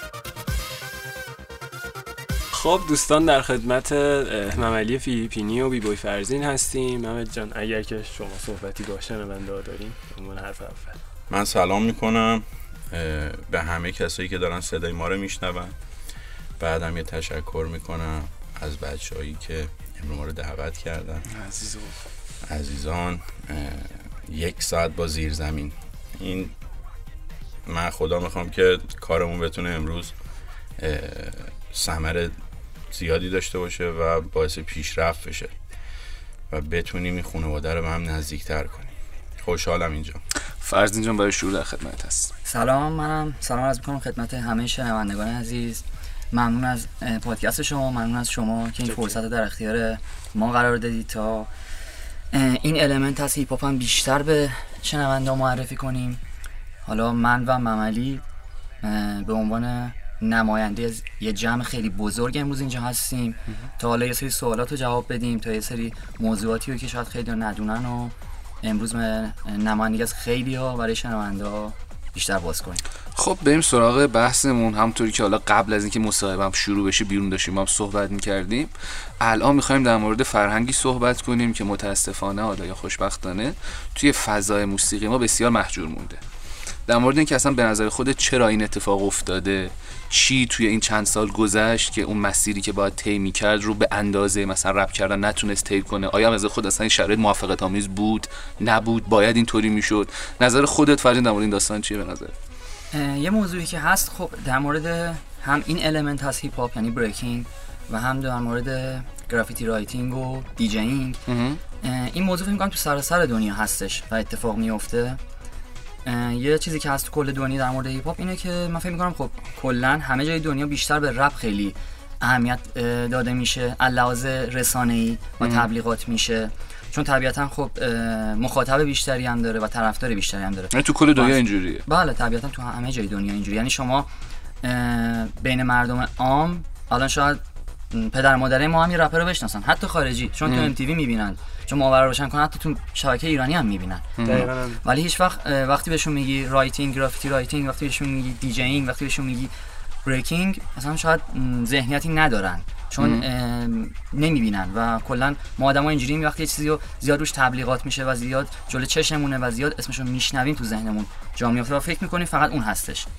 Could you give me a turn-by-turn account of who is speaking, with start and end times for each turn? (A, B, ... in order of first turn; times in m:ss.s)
0:02.5-0:11.0 A
0:11.3-0:15.7 B
0:16.6-0:21.2 B
0:21.3-0:21.9 C
0:22.5-0:26.5 B
0:27.7-0:30.1 B
0:30.8-0:32.3 B
0:32.9-0:35.5 B
0:36.5-0:40.2 B
0:40.6-0:42.3 C
0:42.4-0:51.5 D
0:52.3-0:56.2 D
0:56.9-0:58.2 D
0:58.8-1:12.8 D
1:13.2-1:26.2 C
1:26.9-1:42.3 C
1:42.9-1:51.2 D
1:51.3-1:51.6 C
1:51.8-1:55.2 D
1:56.0-2:14.1 D
2:10.7-2:11.8 C
2:14.6-2:17.4 D
2:17.9-2:29.5 D
2:20.5-2:20.7 C
2:24.2-2:24.5 C
2:24.2-2:24.8 A
2:30.0-2:43.1 D
2:33.0-2:33.2 C